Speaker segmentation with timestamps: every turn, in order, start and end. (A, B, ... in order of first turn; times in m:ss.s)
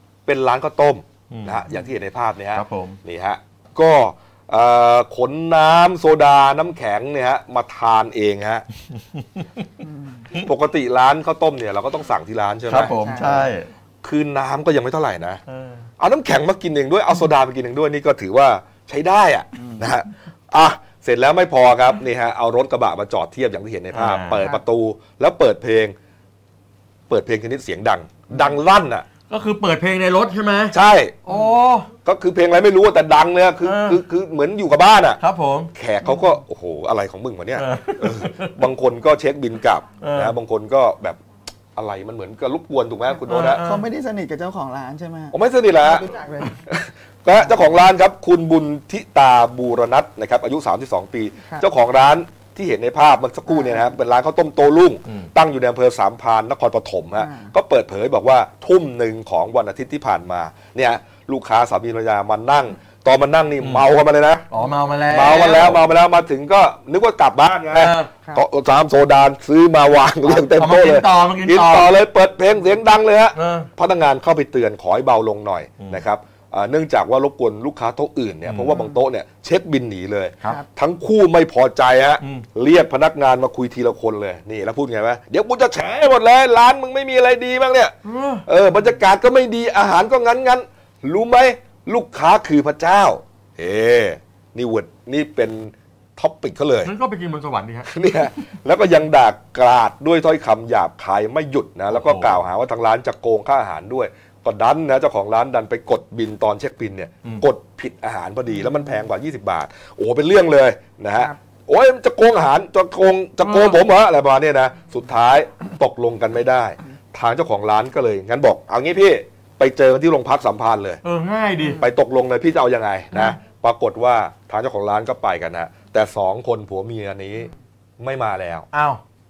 0:00.3-0:08.6 A
0:01.3-0:01.6 B
0:02.5-0:03.0 B
0:09.2-0:09.7 B
0:10.4-0:13.4 A
0:12.7-0:13.7 B
0:13.0-0:13.4 C
0:14.0-0:15.4 A
0:15.5-0:15.9 B
0:16.0-0:25.9 A
0:23.9-0:24.5 B
0:27.1-0:29.1 A
0:29.3-0:31.9 B
0:30.7-0:31.2 A
0:32.0-0:35.2 A
0:33.6-0:34.0 B
0:35.2-0:35.7 B
0:35.8-0:41.2 A
0:37.6-0:38.6 B
0:40.0-0:40.4 B
0:41.8-0:43.6 A
0:43.3-0:43.9 B
0:43.6-0:45.4 C
0:45.3-1:04.5 A
0:45.9-0:46.6 C
1:04.5-1:05.8 B
1:05.1-1:36.9 A
1:07.7-1:08.1 B
1:10.2-1:11.9 B
1:13.4-1:13.7 B
1:18.5-1:18.8 B
1:22.2-1:22.5 B
1:28.0-1:28.5 B
1:36.8-1:37.9 B
1:37.9-2:01.0 A
1:41.9-1:42.4 B
1:53.4-1:53.8 B
2:01.0-2:01.8 B
2:01.7-2:08.7 A
2:08.7-2:09.0 B